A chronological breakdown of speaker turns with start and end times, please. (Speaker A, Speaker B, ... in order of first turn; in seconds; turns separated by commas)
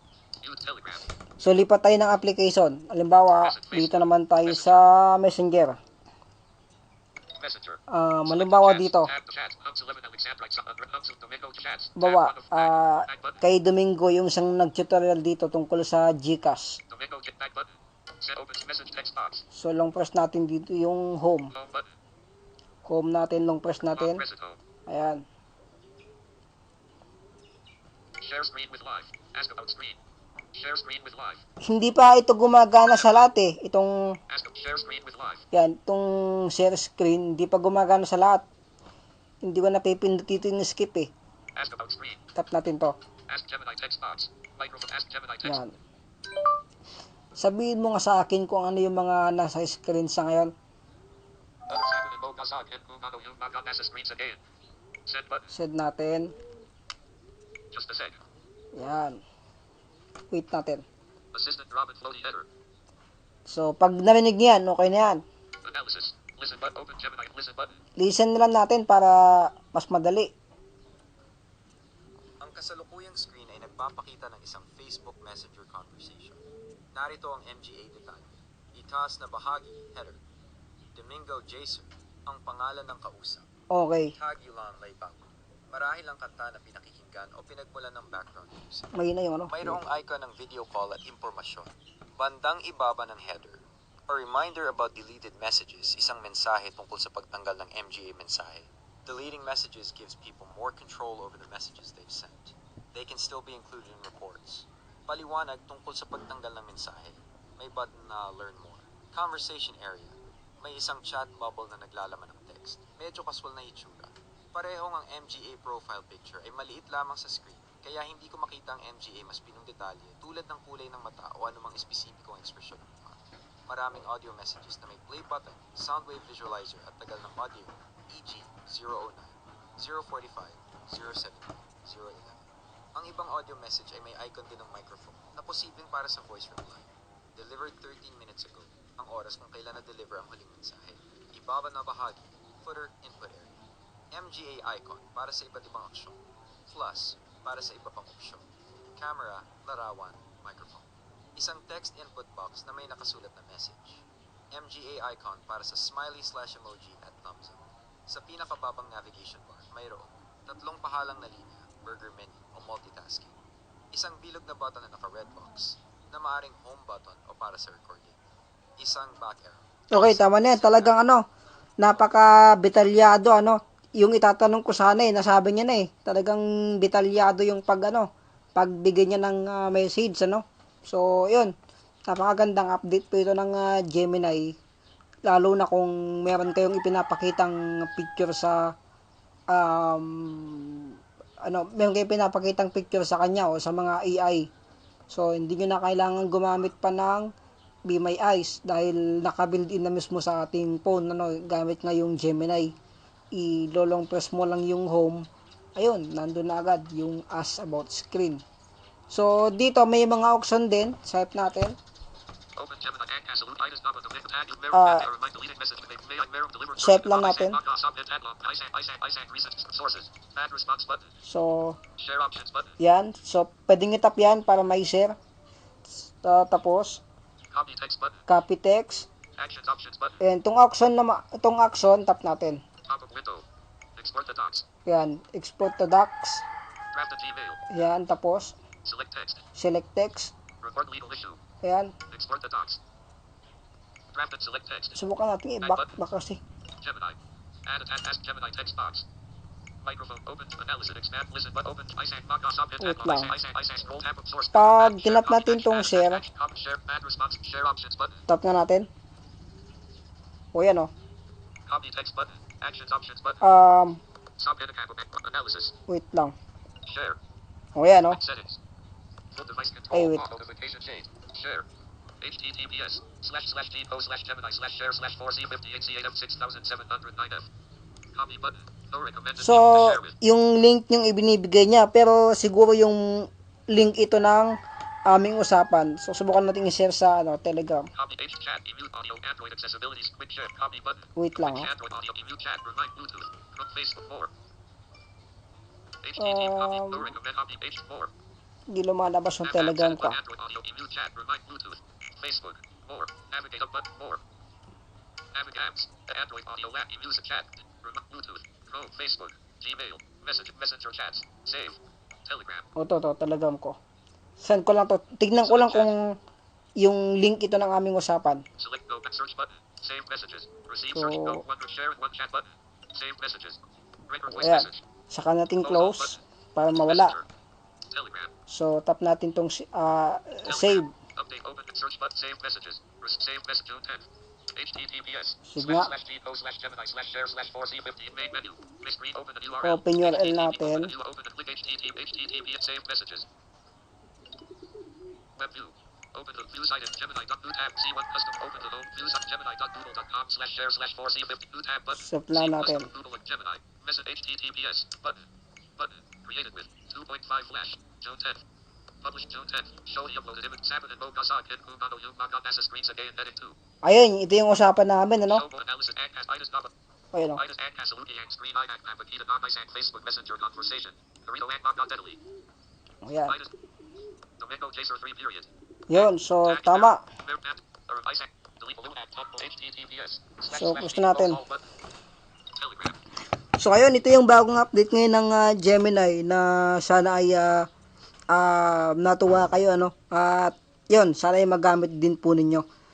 Speaker A: 0.4-1.1, Speaker B: 1.4-5.8, Speaker A: 3.5-4.0, Speaker A: 7.4-7.8, Speaker B: 7.9-9.1, Speaker A: 8.3-13.3, Speaker B: 11.9-16.8, Speaker A: 16.9-17.7, Speaker A: 18.2-19.4, Speaker B: 19.5-21.5, Speaker A: 21.6-21.9, Speaker B: 22.8-24.2, Speaker A: 24.0-24.6, Speaker B: 24.9-25.2, Speaker A: 28.2-30.0, Speaker A: 30.5-31.4, Speaker B: 31.6-34.1, Speaker A: 34.3-35.4, Speaker B: 35.5-38.4, Speaker B: 39.4-41.1, Speaker A: 41.5-42.2, Speaker B: 42.3-42.9, Speaker A: 43.3-45.6, Speaker B: 45.4-45.7, Speaker B: 47.4-50.5, Speaker A: 51.7-54.4, Speaker A: 55.1-55.5, Speaker B: 55.5-56.3, Speaker A: 57.7-58.2, Speaker B: 58.7-59.2, Speaker B: 60.3-60.8, Speaker A: 61.3-62.5, Speaker B: 63.5-65.2, Speaker A: 65.6-67.7, Speaker B: 68.0-70.3, Speaker C: 72.4-76.4, Speaker C: 76.9-80.2, Speaker C: 80.9-83.5, Speaker B: 83.7-84.1, Speaker C: 84.1-88.9, Speaker B: 88.9-89.8, Speaker C: 89.5-143.5, Speaker C: 144.1-163.3, Speaker C: 163.9-168.2, Speaker C: 168.8-170.9, Speaker B: 169.9-171.2, Speaker B: 171.8-181.5, Speaker B: 182.1-184.5, Speaker B: 185.2-188.7, Speaker B: 189.5-194.5, Speaker B: 195.1-197.3, Speaker B: 197.8-202.7, Speaker B: 203.3-208.4, Speaker B: 209.1-211.8, Speaker A: 212.6-221.0, Speaker B: 214.7-215.1, Speaker B: 216.8-217.6, Speaker B: 221.2-221.8, Speaker A: 222.0-222.7, Speaker B: 222.8-225.2, Speaker B: 226.0-227.0, Speaker A: 227.5-228.2, Speaker B: 228.3-229.1, Speaker A: 229.4-230.2, Speaker B: 230.2-232.6, Speaker A: 232.8-233.4, Speaker A: 234.0-234.7, Speaker B: 234.8-236.4, Speaker A: 236.9-237.6, Speaker B: 237.7-238.6, Speaker A: 238.8-239.4, Speaker B: 239.6-240.3, Speaker A: 240.6-241.4, Speaker B: 241.6-241.9, Speaker A: 242.1-242.8, Speaker A: 244.1-244.9, Speaker B: 244.9-246.4, Speaker A: 246.8-249.0, Speaker A: 249.8-258.2, Speaker B: 252.8-253.4, Speaker B: 254.5-256.2, Speaker B: 258.3-258.9, Speaker B: 260.5-260.9, Speaker A: 261.7-263.4, Speaker B: 263.4-264.0, Speaker A: 264.4-265.7, Speaker B: 265.9-266.3, Speaker A: 266.8-267.2, Speaker B: 267.7-268.2, Speaker A: 268.2-268.6, Speaker A: 269.3-271.6, Speaker B: 269.9-270.2, Speaker A: 272.2-277.5, Speaker A: 278.1-280.1, Speaker B: 279.4-284.6, Speaker B: 285.1-287.9, Speaker A: 287.9-294.3, Speaker B: 291.1-291.7, Speaker A: 296.0-298.1, Speaker B: 296.2-297.1, Speaker B: 298.7-300.2, Speaker A: 299.4-304.2, Speaker A: 305.3-312.6, Speaker B: 312.8-313.8, Speaker B: 314.4-316.1, Speaker B: 316.8-318.4, Speaker A: 318.6-324.8, Speaker B: 320.9-321.4, Speaker B: 324.2-327.2, Speaker A: 325.6-326.1, Speaker A: 326.9-327.2, Speaker A: 327.9-328.3, Speaker B: 328.5-330.9, Speaker A: 330.5-343.2, Speaker B: 335.4-335.9, Speaker B: 339.6-340.9, Speaker A: 345.4-355.2, Speaker B: 351.9-352.9, Speaker A: 355.8-358.4, Speaker A: 359.0-363.6, Speaker B: 363.8-365.4, Speaker A: 365.4-366.7, Speaker B: 367.1-367.4, Speaker A: 367.4-372.2, Speaker B: 373.0-373.4, Speaker A: 374.4-375.5, Speaker B: 375.9-377.0, Speaker A: 376.5-381.6, Speaker B: 380.4-381.4, Speaker A: 382.6-382.9, Speaker B: 383.6-387.7, Speaker B: 388.3-392.6